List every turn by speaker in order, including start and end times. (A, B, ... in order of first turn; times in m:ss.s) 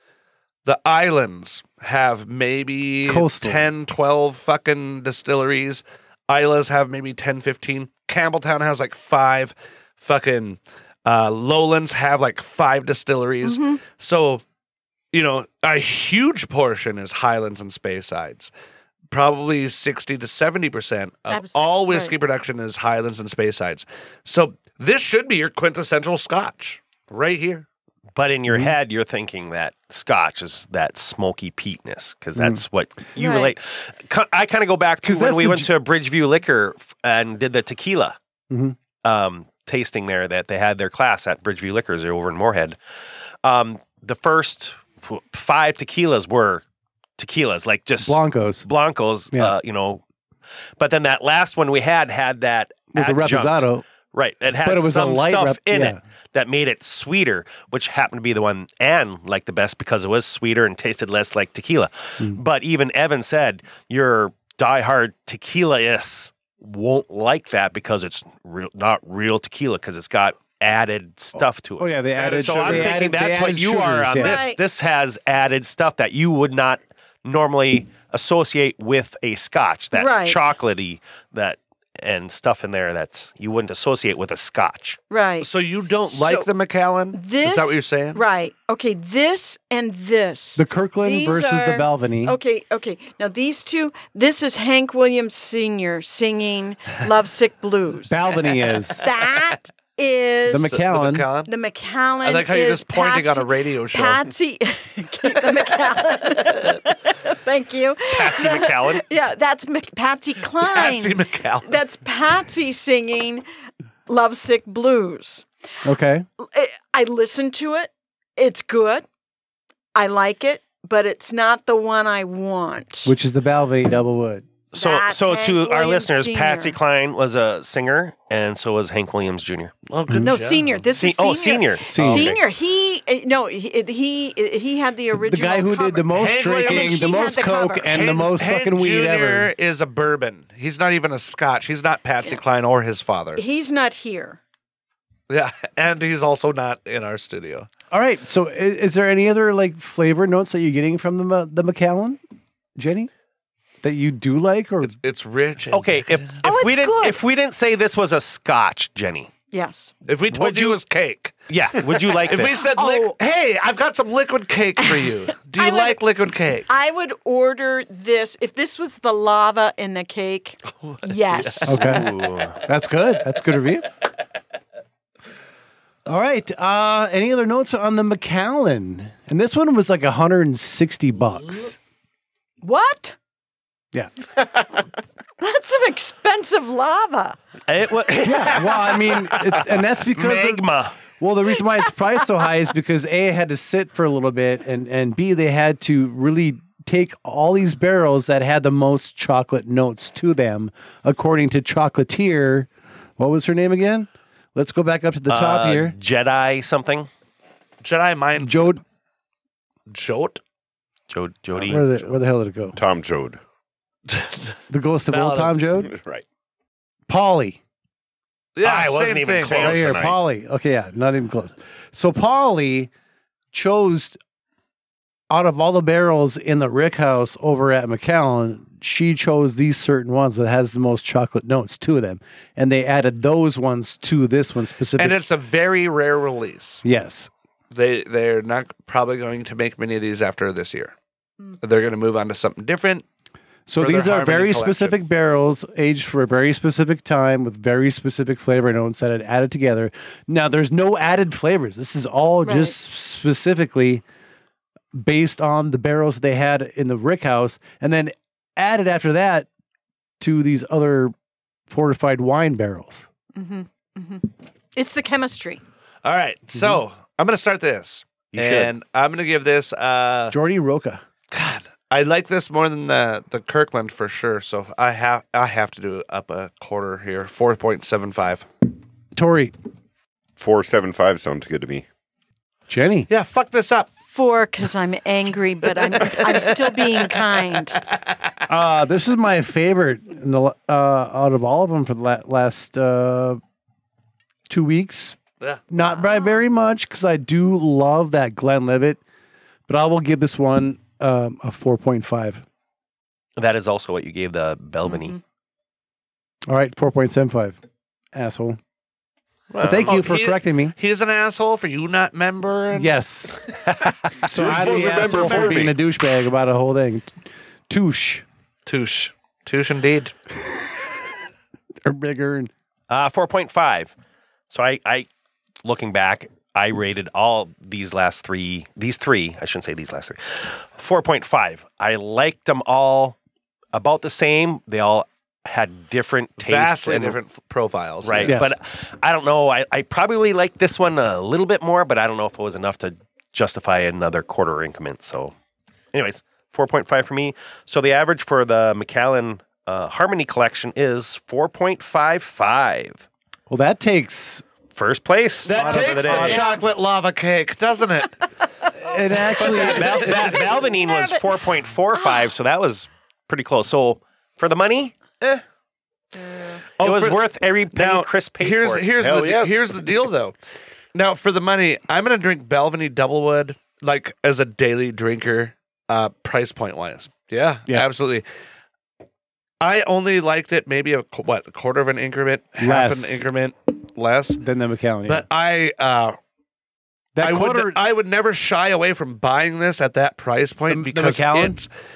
0:00.6-0:14.4 A
0:03.0-0:03.7 B
0:13.4-0:13.8 C
0:15.1-0:18.5 A
0:19.1-0:27.6 A
0:21.3-0:22.1 C
0:28.2-0:38.2 D
0:32.4-0:32.6 B
0:33.2-0:33.5 C
0:35.0-0:35.7 B
0:38.5-0:38.8 B
0:39.0-0:42.8 D
0:43.4-0:46.6 D
0:47.2-0:50.0 D
0:48.0-0:48.7 B
0:50.8-1:25.0 D
0:52.9-0:53.8 B
0:54.6-0:56.0 B
1:11.3-1:14.4 B
1:12.2-1:13.0 A
1:14.2-1:14.6 C
1:19.9-1:20.4 C
1:25.1-1:25.5 C
1:25.4-1:28.2 A
1:26.1-1:26.5 C
1:27.1-1:38.2 C
1:30.6-1:32.4 B
1:38.1-1:39.0 B
1:39.0-1:40.8 C
1:40.5-1:41.3 B
1:40.7-1:41.5 A
1:41.4-1:53.4 C
1:42.2-1:44.2 A
1:48.1-1:49.0 D
1:50.6-1:51.7 A
1:54.1-1:55.4 C
1:55.8-1:56.2 B
1:56.4-1:59.0 C
1:59.9-2:03.1 C
2:03.0-2:04.4 B
2:04.7-2:06.8 C
2:04.7-2:09.7 D
2:09.9-2:10.7 A
2:10.2-2:18.0 C
2:10.9-2:12.4 D
2:11.9-2:12.4 B
2:15.1-2:19.5 B
2:16.1-2:17.0 A
2:17.8-2:23.4 A
2:23.4-2:24.4 C
2:25.3-2:27.7 A
2:27.9-2:32.2 B
2:32.8-2:33.1 B
2:33.8-2:35.0 B
2:34.8-2:36.3 A
2:35.7-2:39.3 D
2:36.4-2:37.2 C
2:39.5-2:39.9 C
2:40.0-2:41.4 A
2:40.3-2:40.8 D
2:41.5-2:42.7 D
2:42.1-2:46.7 A
2:42.6-2:43.1 C
2:44.8-2:46.0 C
2:46.7-2:52.2 C
2:50.8-2:51.8 A
2:51.6-2:53.9 B
2:51.7-2:52.6 D
2:56.0-3:01.8 B
3:02.6-3:03.1 C
3:05.4-3:07.4 C
3:07.7-3:10.9 D
3:08.2-3:25.9 B
3:25.3-3:27.1 D
3:27.8-3:28.8 A
3:28.4-3:28.8 B
3:29.9-3:30.4 A
3:31.1-3:31.8 D
3:31.6-3:32.1 A
3:31.7-3:32.8 B
3:32.7-3:33.4 E
3:34.1-3:34.5 A
3:34.7-3:35.9 B
3:35.1-3:35.6 A
3:35.8-3:36.2 E
3:37.1-3:37.6 B
3:38.6-3:40.0 A
3:38.6-3:40.1 D
3:39.4-3:40.1 E
3:39.5-3:42.9 B
3:43.5-3:44.2 B
3:45.3-3:55.2 B
3:55.0-3:56.8 A
3:56.8-3:57.3 B
3:57.7-4:00.9 A
4:01.6-4:03.0 A
4:03.7-4:14.0 B
4:03.8-4:05.0 A
4:12.4-4:12.7 C
4:14.9-4:19.5 B
4:20.2-4:21.1 B
4:21.7-4:23.0 B
4:23.3-4:25.6 C
4:26.0-4:30.3 A
4:28.3-4:28.7 D
4:30.3-4:31.0 B
4:31.3-4:38.4 A
4:39.1-4:39.5 B
4:40.4-4:41.8 E
4:42.7-4:43.1 B
4:43.1-4:43.9 A
4:44.1-4:47.8 C
4:46.0-4:46.4 A
4:48.5-4:53.4 B
4:54.5-4:55.2 B
4:55.7-4:59.0 B
4:55.9-4:56.4 C
4:59.7-5:02.4 B
5:03.4-5:05.2 D
5:04.9-5:05.2 C
5:06.5-5:07.6 B
5:08.1-5:08.6 B
5:09.5-5:10.0 D
5:09.6-5:10.7 B
5:09.7-5:12.9 A
5:12.7-5:18.2 B
5:14.3-5:15.8 E
5:14.4-5:15.7 A
5:18.6-5:20.1 A
5:21.8-5:22.5 B
5:22.9-5:23.9 D
5:24.5-5:25.1 D
5:25.6-5:33.2 D
5:33.7-5:37.2 D
5:36.4-5:38.5 A
5:38.0-5:45.3 D
5:38.2-5:38.5 B
5:45.9-5:53.0 D
5:53.5-5:54.4 B
5:54.7-5:56.5 D
5:55.4-5:58.2 A
5:55.5-5:56.5 B
5:56.2-5:56.6 C
5:58.8-6:00.5 B
5:59.4-6:05.4 D
5:59.5-6:01.2 C
6:01.9-6:02.3 C
6:06.2-6:06.6 C
6:06.8-6:07.2 A
6:06.8-6:08.9 D
6:07.7-6:10.3 A
6:09.0-6:09.7 E
6:10.9-6:18.2 A
6:19.6-6:24.4 A
6:22.6-6:23.2 B
6:24.4-6:25.2 B
6:25.0-6:26.2 A
6:27.1-6:27.8 B
6:27.2-6:31.7 A
6:30.7-6:31.6 B